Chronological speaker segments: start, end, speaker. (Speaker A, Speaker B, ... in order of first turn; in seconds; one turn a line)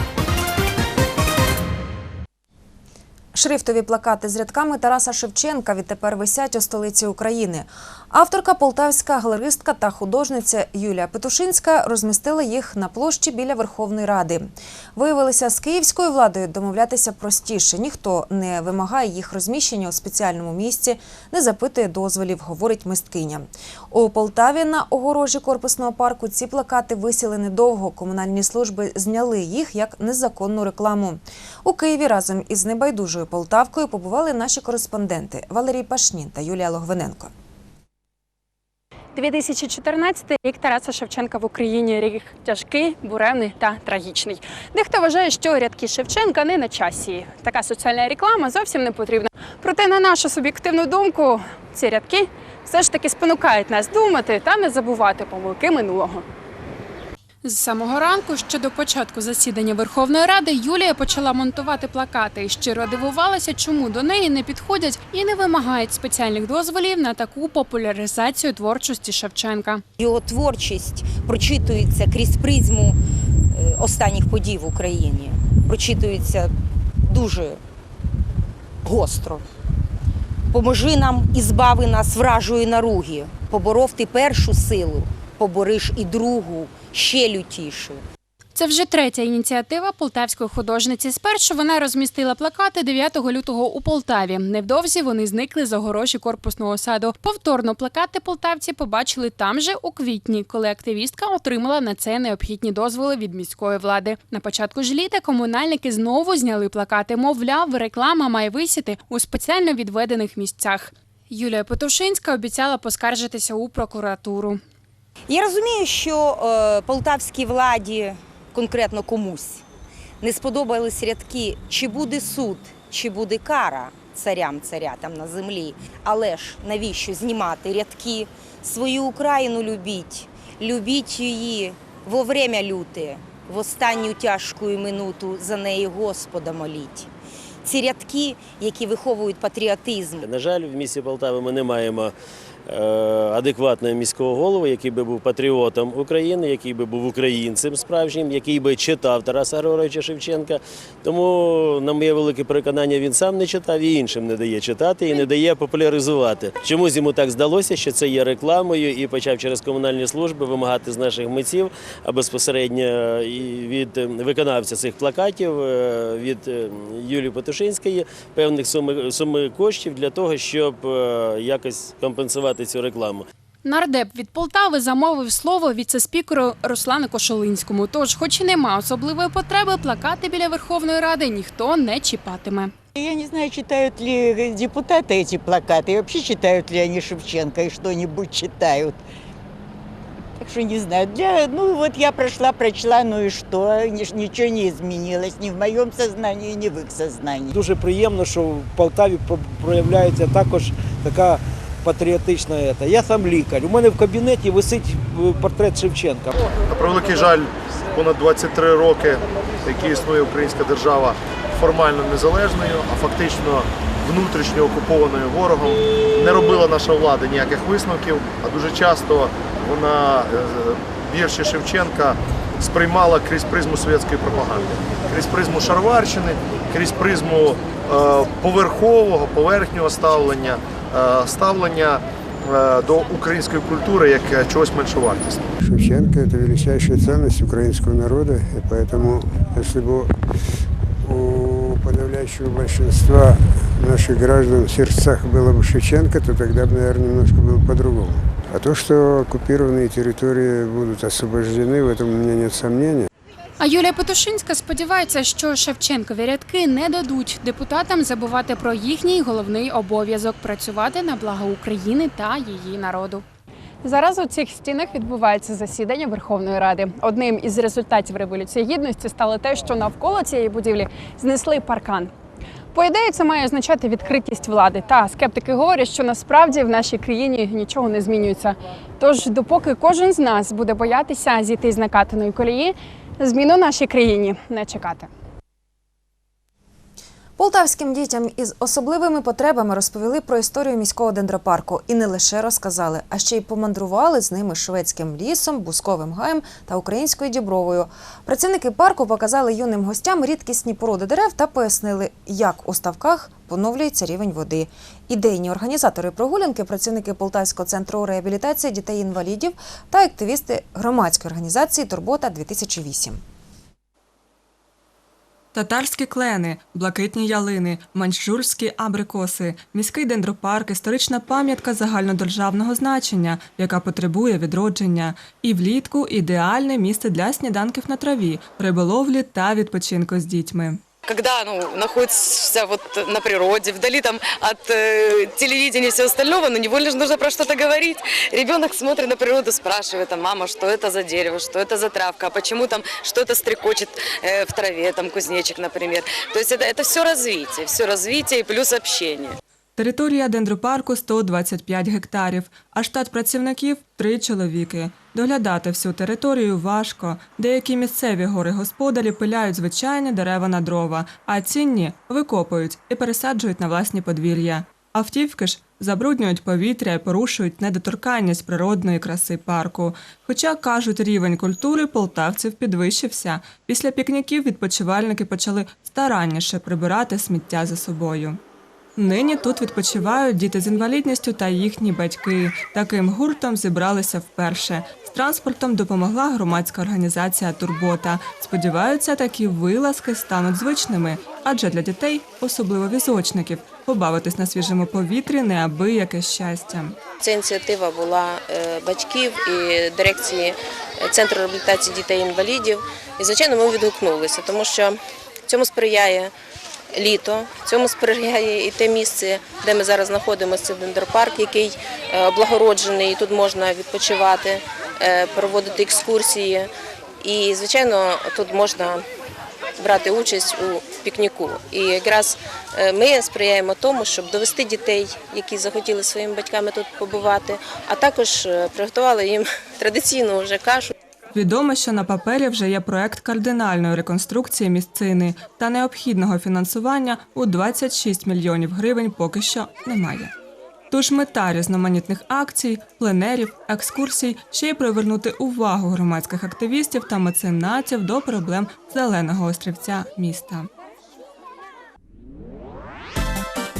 Speaker A: 3.3-37.3
Speaker B: 39.1-56.2
Speaker B: 57.4-69.8
Speaker C: 70.0-73.0
Speaker C: 73.5-76.5
Speaker C: 77.0-77.6
Speaker C: 78.8-79.4
Speaker C: 80.5-88.0
Speaker B: 88.5-114.6
Speaker C: 115.3-119.6
Speaker C: 120.2-137.1
Speaker C: 137.6-140.2
Speaker D: 140.2-142.1
Speaker D: 142.7-173.2
Speaker B: 173.6-182.7
Speaker E: 182.9-189.0
Speaker E: 190.4-197.6
Speaker F: 197.5-206.3
Speaker G: 206.7-235.4
Speaker H: 235.7-240.1
Speaker H: 241.1-252.9
Speaker B: 253.6-263.2
Speaker B: 263.8-272.1
Speaker B: 272.7-285.1
Speaker A: 287.4-313.2
Speaker I: 315.5-330.8
Speaker J: 331.1-349.4
Speaker I: 349.8-378.4
Speaker I: 379.0-397.0
Speaker K: 397.2-406.3
Speaker K: 406.9-416.7
Speaker K: 417.2-419.0
Speaker K: 419.8-430.9
Speaker I: 431.3-440.3
Speaker I: 440.9-450.7